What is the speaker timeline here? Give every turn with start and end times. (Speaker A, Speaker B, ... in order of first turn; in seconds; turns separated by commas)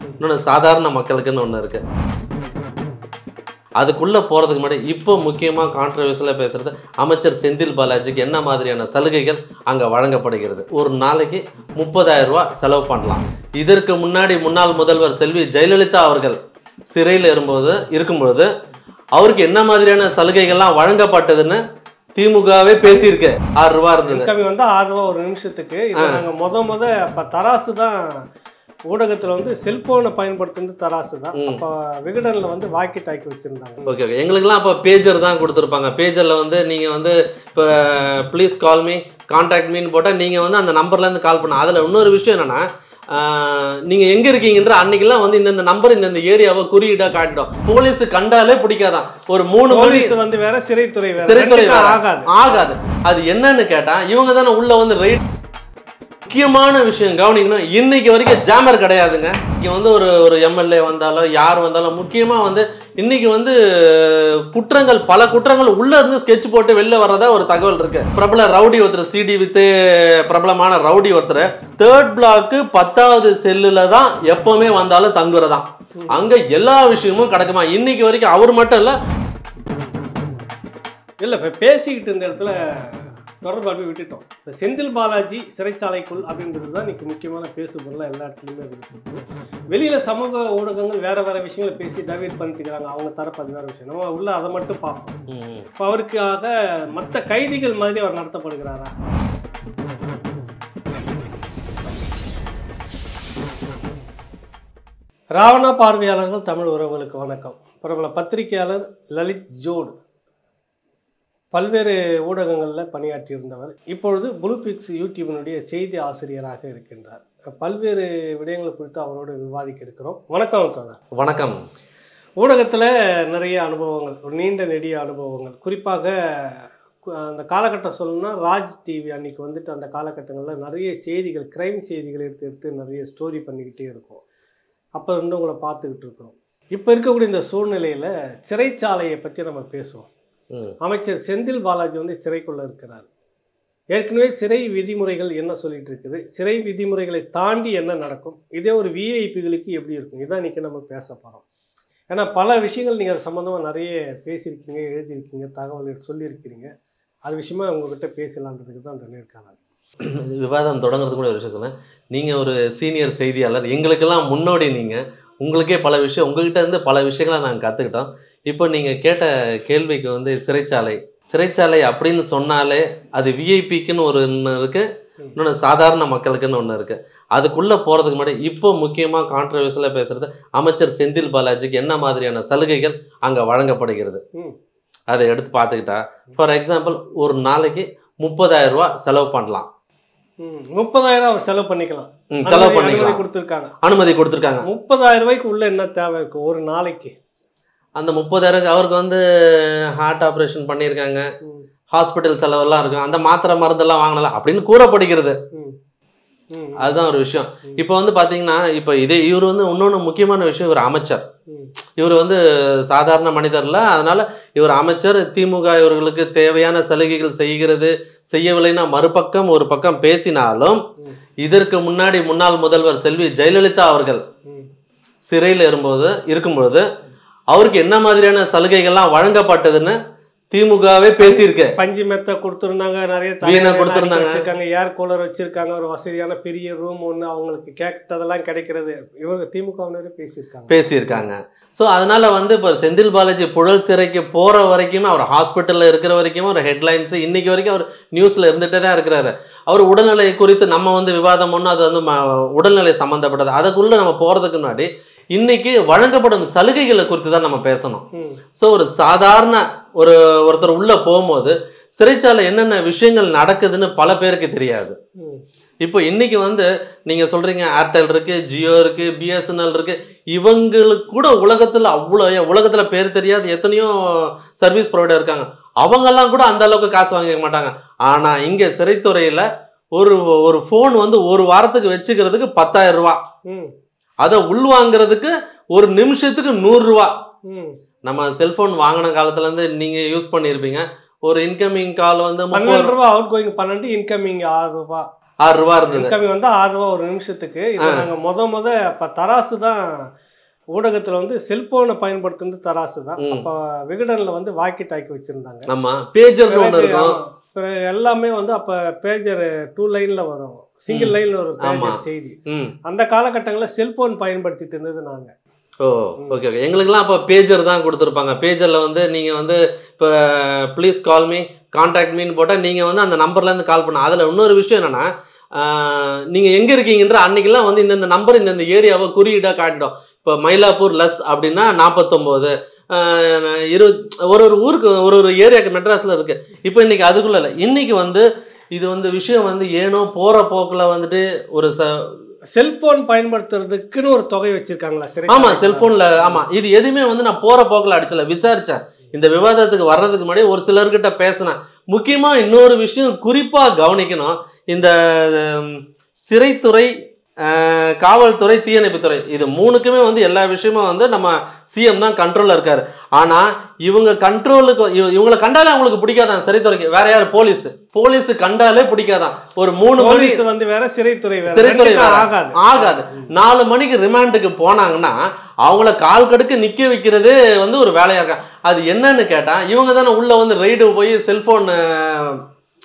Speaker A: 0.2-1.8, Speaker A: 3.8-16.4, Speaker A: 16.9-18.5, Speaker A: 19.1-21.6, Speaker A: 22.2-24.3, Speaker B: 24.1-28.1, Speaker A: 26.0-26.2, Speaker B: 28.9-34.0, Speaker A: 31.4-31.6, Speaker A: 33.9-50.1, Speaker B: 49.7-52.3, Speaker A: 51.2-55.2, Speaker A: 56.3-79.0, Speaker B: 81.2-95.2, Speaker A: 95.3-95.7, Speaker B: 95.8-98.9, Speaker B: 105.4-109.9, Speaker B: 111.5-121.0, Speaker A: 121.2-121.6, Speaker B: 122.4-126.6, Speaker B: 127.2-134.2, Speaker B: 135.0-140.1, Speaker B: 140.8-143.1, Speaker B: 143.9-151.4, Speaker B: 152.1-156.7, Speaker B: 157.2-159.6, Speaker A: 160.0-174.9, Speaker A: 175.4-184.2, Speaker A: 185.1-189.7, Speaker B: 190.4-193.7, Speaker A: 192.3-193.2, Speaker A: 193.8-194.7, Speaker B: 194.6-197.1, Speaker A: 198.0-201.3, Speaker A: 201.9-205.4, Speaker B: 206.5-207.0, Speaker A: 206.8-211.2, Speaker A: 212.0-220.8, Speaker A: 221.4-224.2, Speaker A: 225.3-226.8, Speaker A: 227.5-229.9, Speaker A: 230.5-231.7, Speaker B: 231.2-241.3, Speaker A: 233.4-234.4, Speaker A: 240.7-258.0, Speaker B: 258.1-258.4, Speaker A: 258.6-265.0, Speaker A: 265.8-279.4, Speaker A: 280.0-283.2, Speaker A: 284.2-287.1, Speaker B: 287.5-287.8, Speaker A: 288.1-292.9, Speaker B: 292.5-295.1, Speaker A: 295.4-296.1, Speaker B: 295.9-299.9, Speaker B: 300.8-305.7, Speaker A: 303.2-303.5, Speaker A: 305.7-307.2, Speaker B: 306.5-315.3, Speaker A: 310.9-312.7, Speaker A: 315.8-342.1, Speaker B: 342.5-346.4, Speaker A: 345.3-356.9, Speaker A: 357.4-370.4, Speaker B: 370.0-373.3, Speaker A: 371.5-382.4